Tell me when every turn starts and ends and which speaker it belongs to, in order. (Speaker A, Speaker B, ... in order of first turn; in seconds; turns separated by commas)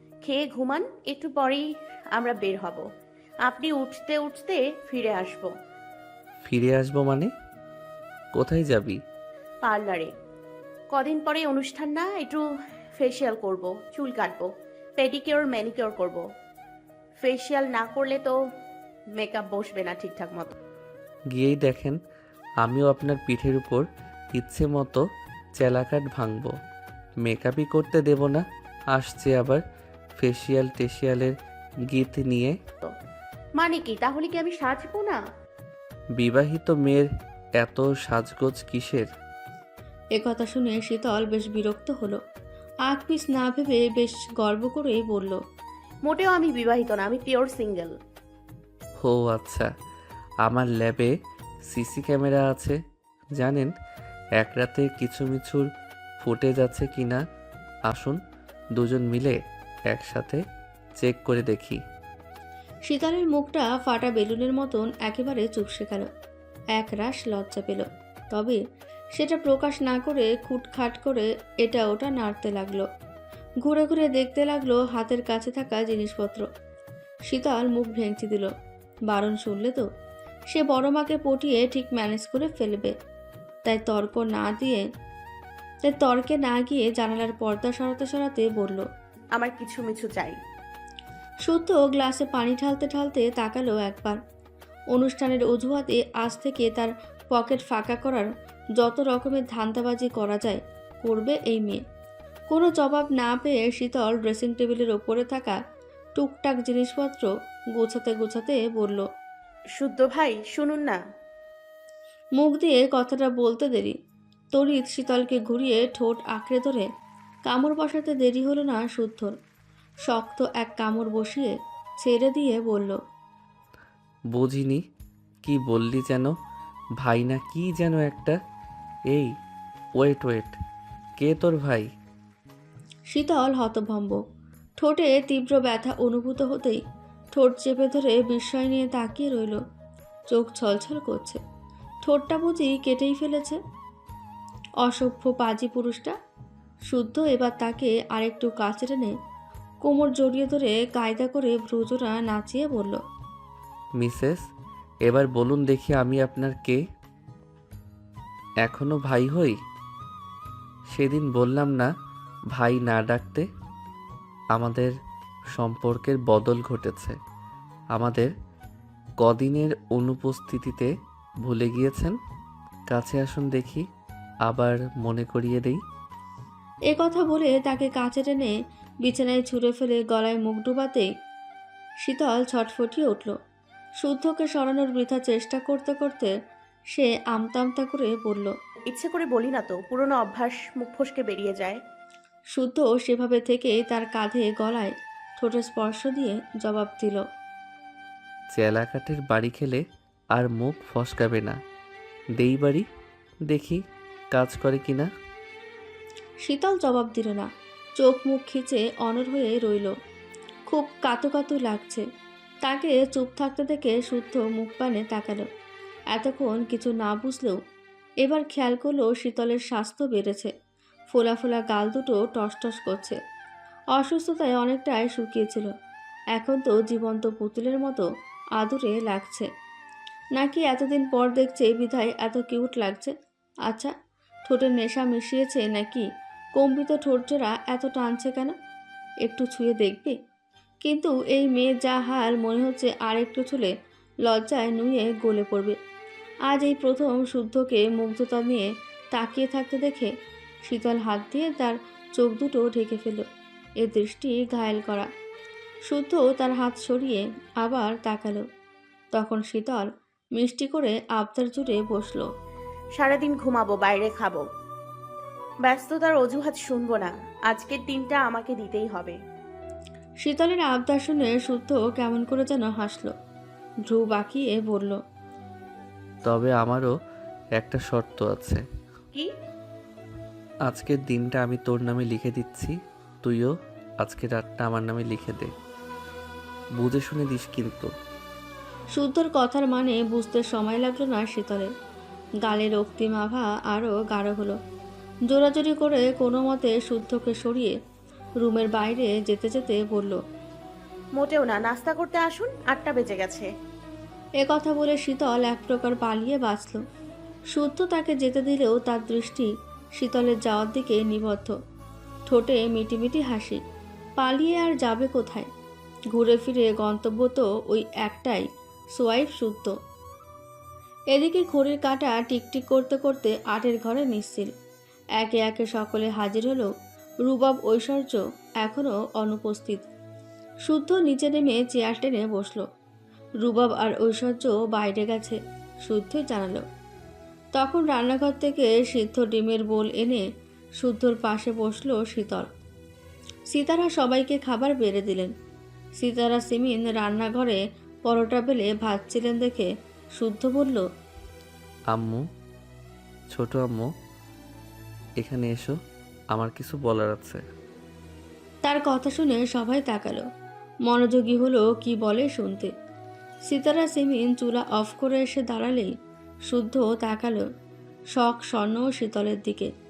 Speaker A: 0.2-2.8, Speaker A: 3.4-5.5, Speaker B: 6.5-7.3, Speaker B: 8.4-9.0, Speaker A: 9.6-10.1, Speaker A: 10.9-12.4, Speaker A: 13.0-16.2, Speaker A: 17.2-18.4, Speaker A: 19.2-20.6, Speaker B: 21.3-22.0, Speaker B: 22.6-23.9, Speaker B: 24.4-25.0, Speaker B: 25.6-26.5, Speaker B: 27.2-28.4, Speaker B: 28.9-29.6, Speaker B: 30.2-31.3, Speaker B: 31.9-32.5, Speaker A: 33.6-35.2, Speaker B: 36.2-37.1, Speaker B: 37.6-39.1, Speaker C: 40.2-42.2, Speaker C: 42.9-45.4, Speaker A: 46.0-47.9, Speaker B: 49.0-49.7, Speaker B: 50.5-51.1, Speaker B: 51.7-52.8, Speaker B: 53.4-53.7, Speaker B: 54.4-55.6, Speaker B: 56.2-57.2, Speaker B: 57.9-58.2, Speaker B: 58.8-59.4, Speaker B: 59.9-60.4, Speaker B: 61.0-61.8, Speaker C: 62.9-66.1, Speaker C: 66.8-68.6, Speaker C: 69.2-72.8, Speaker C: 73.6-76.5, Speaker C: 77.3-78.5, Speaker C: 79.1-79.8, Speaker C: 80.5-82.9, Speaker C: 83.7-84.8, Speaker C: 85.8-88.8, Speaker A: 89.3-90.4, Speaker C: 91.5-94.2, Speaker C: 94.9-98.3, Speaker C: 98.8-101.8, Speaker C: 102.5-105.6, Speaker C: 106.2-109.0, Speaker A: 109.8-111.0, Speaker C: 112.4-113.9, Speaker C: 114.5-116.9, Speaker C: 117.5-119.3, Speaker C: 120.1-121.5, Speaker C: 122.0-123.0, Speaker B: 124.3-124.8, Speaker B: 125.5-126.3, Speaker B: 127.0-128.4, Speaker B: 130.0-130.6, Speaker B: 131.2-131.9, Speaker C: 133.1-134.2, Speaker C: 134.8-136.8, Speaker C: 137.3-139.6, Speaker C: 140.3-141.4, Speaker C: 142.0-143.6, Speaker C: 144.8-146.2, Speaker C: 146.9-149.1, Speaker C: 149.8-153.0, Speaker B: 154.0-154.4, Speaker B: 155.1-156.8, Speaker B: 158.7-159.6, Speaker B: 160.9-161.9, Speaker B: 162.6-163.5, Speaker B: 164.6-164.9, Speaker B: 165.6-167.2, Speaker B: 167.9-168.3, Speaker B: 169.2-170.9, Speaker B: 171.4-172.2, Speaker B: 172.9-173.8, Speaker B: 174.5-175.8, Speaker C: 176.9-178.5, Speaker C: 179.0-181.1, Speaker C: 182.0-183.3, Speaker C: 184.0-186.3, Speaker C: 186.9-188.5, Speaker A: 188.9-191.8, Speaker C: 192.6-197.2, Speaker B: 198.5-199.8, Speaker B: 200.4-201.6, Speaker B: 202.4-202.8, Speaker B: 203.5-203.8, Speaker B: 204.3-205.1, Speaker C: 206.4-207.5, Speaker C: 208.0-209.9, Speaker C: 210.7-212.0, Speaker C: 212.6-215.4, Speaker C: 216.1-217.6, Speaker C: 218.2-220.5, Speaker C: 221.1-223.2, Speaker C: 223.9-225.7, Speaker C: 226.4-228.1, Speaker C: 228.6-229.5, Speaker C: 230.4-233.1, Speaker C: 233.7-233.9, Speaker C: 234.5-236.1, Speaker C: 236.6-238.5, Speaker C: 239.2-240.2, Speaker C: 240.8-243.7, Speaker C: 244.3-245.8, Speaker C: 246.5-250.1, Speaker C: 250.7-253.2, Speaker C: 253.8-255.1, Speaker C: 255.9-258.4, Speaker C: 259.1-262.3, Speaker A: 262.9-264.5, Speaker A: 265.6-269.2, Speaker C: 270.2-273.1, Speaker C: 273.9-275.0, Speaker B: 276.3-276.9, Speaker B: 277.6-278.6, Speaker B: 280.7-285.5, Speaker B: 286.8-287.9, Speaker C: 288.9-291.7, Speaker C: 292.4-294.6, Speaker C: 295.3-297.8, Speaker C: 298.4-300.2, Speaker A: 301.1-303.5, Speaker C: 304.4-306.8, Speaker C: 307.5-311.5, Speaker C: 312.3-313.6, Speaker C: 314.2-315.5, Speaker C: 316.1-319.7, Speaker C: 321.1-324.5, Speaker C: 325.2-326.7, Speaker C: 327.2-329.9, Speaker C: 330.7-332.6, Speaker C: 333.4-336.6, Speaker C: 337.5-340.2, Speaker C: 340.8-342.5, Speaker C: 343.5-345.3, Speaker C: 346.0-350.8, Speaker B: 351.9-352.2, Speaker B: 353.3-353.9, Speaker B: 355.2-355.7, Speaker B: 356.3-357.4, Speaker C: 358.6-360.2, Speaker C: 360.9-362.7, Speaker C: 363.5-365.9, Speaker C: 366.5-367.4, Speaker C: 368.2-369.7